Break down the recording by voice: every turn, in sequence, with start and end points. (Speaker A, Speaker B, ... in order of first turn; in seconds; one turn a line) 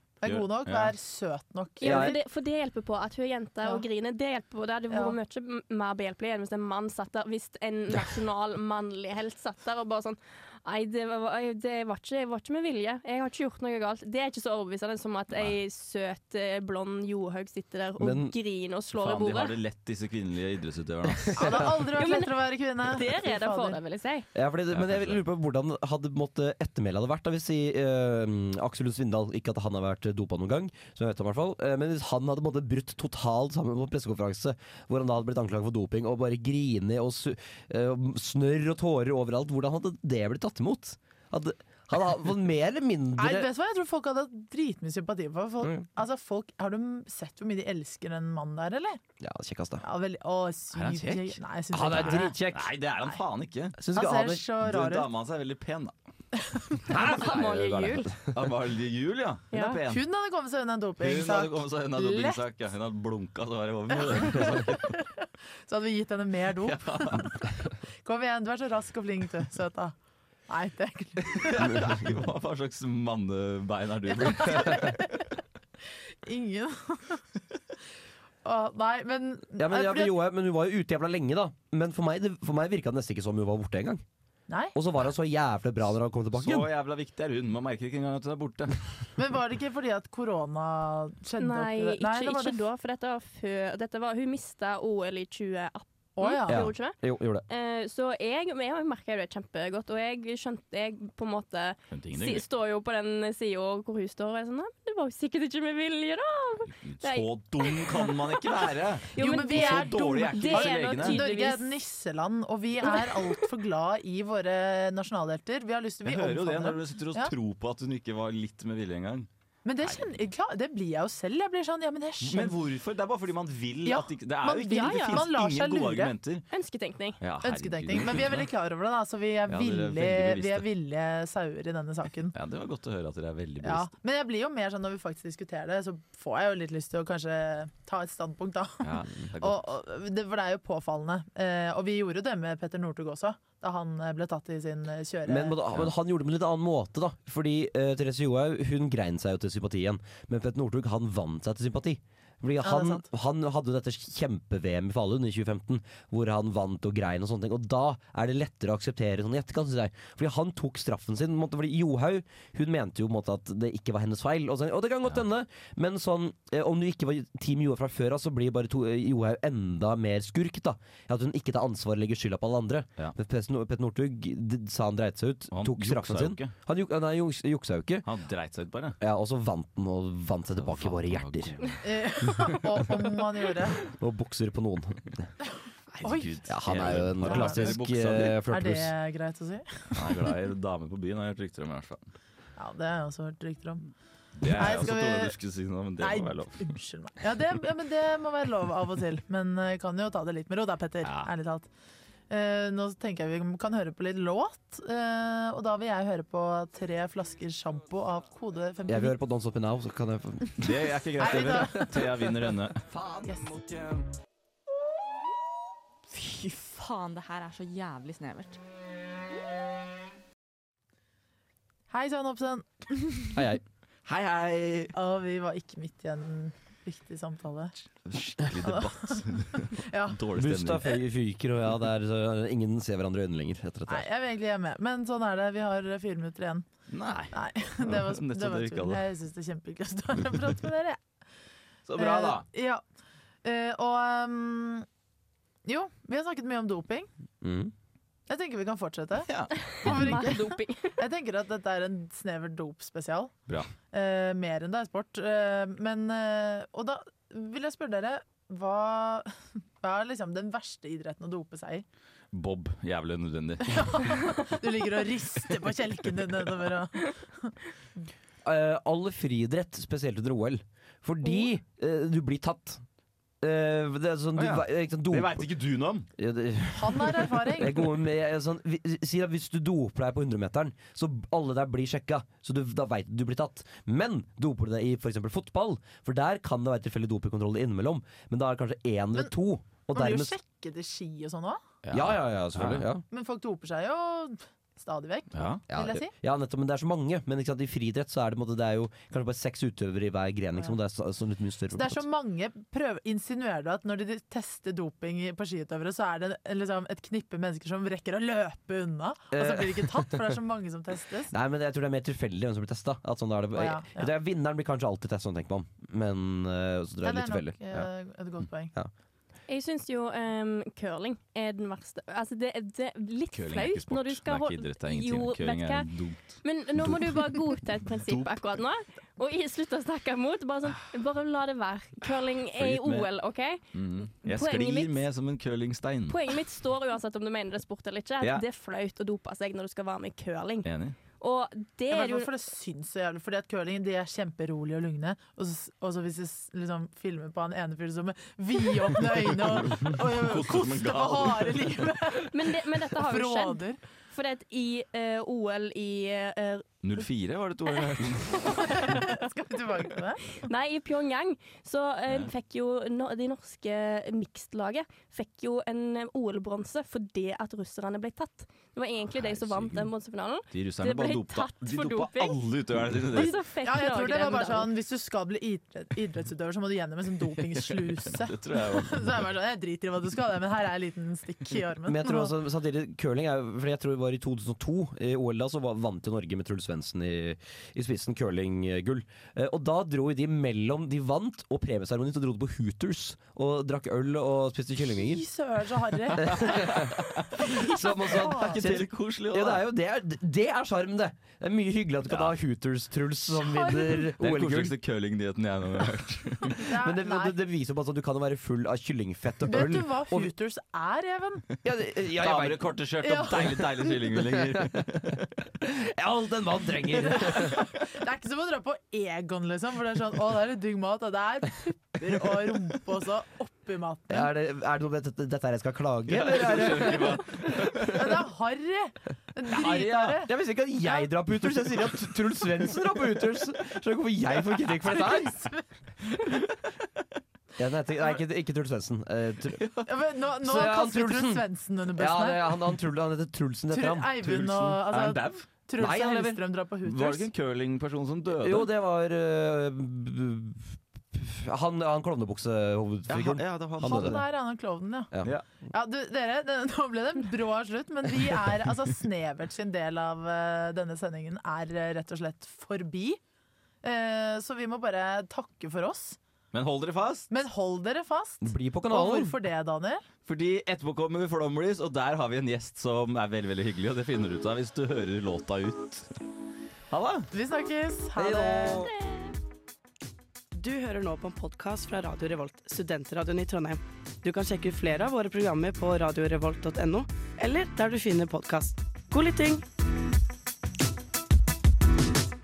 Speaker A: 0.2-2.2
Speaker B: 0.2-0.9
Speaker C: 1.8-19.6
Speaker D: 1.8-2.2
Speaker A: 4.9-5.2
Speaker D: 18.0-18.3
Speaker B: 18.9-21.8
Speaker A: 21.4-23.8
Speaker C: 22.0-22.3
Speaker C: 22.8-24.3
Speaker D: 24.3-43.5
Speaker B: 24.7-25.2
Speaker A: 43.2-49.0
Speaker D: 45.6-45.9
Speaker D: 49.2-49.8
Speaker A: 49.8-52.4
Speaker B: 50.7-53.8
Speaker D: 51.7-52.7
Speaker D: 53.8-54.4
Speaker A: 53.9-55.1
Speaker B: 54.6-56.0
Speaker A: 56.4-56.8
Speaker D: 56.9-58.3
Speaker C: 56.9-58.1
Speaker B: 58.3-60.0
Speaker A: 59.5-62.4
Speaker B: 61.0-64.9
Speaker A: 64.0-65.0
Speaker A: 65.7-67.4
Speaker B: 66.6-67.4
Speaker A: 68.0-69.9
Speaker A: 70.5-71.8
Speaker B: 71.2-75.1
Speaker A: 74.3-75.2
Speaker A: 76.2-77.2
Speaker A: 78.4-80.2
Speaker D: 79.6-84.0
Speaker A: 84.5-84.7
Speaker D: 84.7-86.7
Speaker B: 86.4-88.9
Speaker A: 89.2-92.6
Speaker C: 91.4-108.2
Speaker A: 96.2-96.7
Speaker D: 96.5-97.4
Speaker B: 101.9-102.4
Speaker B: 106.6-111.2
Speaker C: 109.1-111.7
Speaker A: 109.2-117.3
Speaker C: 112.8-113.3
Speaker B: 116.0-120.2
Speaker A: 119.6-122.6
Speaker B: 122.2-126.4
Speaker A: 123.8-126.1
Speaker C: 124.8-125.2
Speaker C: 126.5-127.2
Speaker B: 127.2-128.5
Speaker A: 127.4-132.3
Speaker B: 129.5-130.7
Speaker B: 132.3-133.9
Speaker A: 133.6-145.6
Speaker B: 138.8-139.6
Speaker D: 145.2-178.1
Speaker A: 152.6-153.1
Speaker B: 175.5-176.5
Speaker B: 178.0-179.0
Speaker D: 179.0-181.6
Speaker B: 180.6-181.8
Speaker A: 181.8-183.8
Speaker D: 183.8-185.2
Speaker B: 185.9-188.4
Speaker A: 186.0-187.8
Speaker D: 186.5-188.9
Speaker A: 188.4-190.2
Speaker B: 189.9-192.1
Speaker A: 192.6-193.8
Speaker B: 194.3-196.7
Speaker A: 194.5-195.4
Speaker A: 196.0-201.7
Speaker B: 201.0-201.3
Speaker A: 202.3-209.1
Speaker D: 208.9-210.6
Speaker B: 210.6-212.8
Speaker A: 211.2-212.1
Speaker A: 213.3-213.5
Speaker E: 216.1-218.6
Speaker A: 221.9-223.4
Speaker D: 223.3-223.6
Speaker B: 224.0-224.9
Speaker A: 224.9-227.8
Speaker B: 228.0-230.9
Speaker A: 228.6-229.1
Speaker A: 229.8-230.2
Speaker D: 230.3-234.1
Speaker A: 233.9-236.7
Speaker B: 236.9-239.0
Speaker A: 237.3-241.0
Speaker B: 241.9-242.4
Speaker A: 242.0-242.8
Speaker A: 243.4-244.8
Speaker A: 245.6-247.1
Speaker D: 247.4-247.7
Speaker A: 248.3-253.3
Speaker B: 249.3-250.2
Speaker C: 249.8-251.0
Speaker A: 253.9-259.3
Speaker A: 259.8-261.8
Speaker B: 262.3-264.5
Speaker A: 263.7-267.5
Speaker D: 268.4-272.8
Speaker D: 273.4-275.4
Speaker B: 274.4-276.1
Speaker D: 276.2-290.3
Speaker A: 276.7-277.9
Speaker A: 289.9-291.6
Speaker B: 291.8-292.9
Speaker D: 291.9-293.0
Speaker A: 293.1-296.1
Speaker B: 295.3-295.6
Speaker D: 295.7-302.0
Speaker A: 301.7-311.3
Speaker D: 309.3-310.2
Speaker D: 311.3-317.9
Speaker A: 313.5-314.1
Speaker A: 317.0-318.7
Speaker C: 319.5-325.9
Speaker B: 323.3-327.2
Speaker C: 326.4-333.6
Speaker B: 328.0-328.4
Speaker B: 332.6-333.1
Speaker B: 333.7-336.2
Speaker C: 334.2-335.1
Speaker C: 336.1-342.3
Speaker B: 340.6-340.9
Speaker A: 341.9-352.4
Speaker B: 349.5-351.7
Speaker C: 352.3-357.0
Speaker A: 352.9-353.8
Speaker B: 356.8-359.0
Speaker C: 357.8-359.2
Speaker A: 358.7-360.2
Speaker C: 360.3-372.4
Speaker B: 369.1-369.9
Speaker B: 370.5-373.3
Speaker C: 373.1-374.7
Speaker A: 373.1-382.3
Speaker B: 377.6-379.1
Speaker D: 381.9-395.2
Speaker A: 394.9-396.6
Speaker D: 396.2-404.8
Speaker B: 396.3-399.6
Speaker A: 398.0-398.6
Speaker B: 402.1-402.3
Speaker A: 403.3-404.1
Speaker B: 404.2-406.6
Speaker A: 406.6-407.4
Speaker D: 406.7-410.3
Speaker A: 409.4-411.4
Speaker D: 411.6-412.8
Speaker B: 412.2-415.2
Speaker A: 413.0-413.6
Speaker D: 414.1-415.0
Speaker D: 415.6-417.7
Speaker A: 417.1-424.3
Speaker B: 422.0-422.5
Speaker D: 424.1-428.0
Speaker B: 426.1-428.1
Speaker A: 427.9-430.3
Speaker B: 429.5-430.1
Speaker D: 429.6-435.5
Speaker A: 435.2-435.5
Speaker D: 437.6-439.6
Speaker B: 439.5-439.9
Speaker A: 439.9-442.4
Speaker D: 440.4-444.8
Speaker A: 443.7-447.3
Speaker B: 444.2-445.4
Speaker D: 445.8-446.4
Speaker B: 446.8-448.7
Speaker D: 448.4-454.2
Speaker B: 453.1-454.2
Speaker A: 453.8-455.1
Speaker A: 455.7-463.2
Speaker A: 463.8-466.2
Speaker B: 466.5-467.3
Speaker A: 467.3-470.0
Speaker D: 468.4-469.4
Speaker B: 470.2-476.1
Speaker B: 476.9-477.3
Speaker A: 477.3-478.9
Speaker D: 478.2-478.9
Speaker F: 480.5-489.6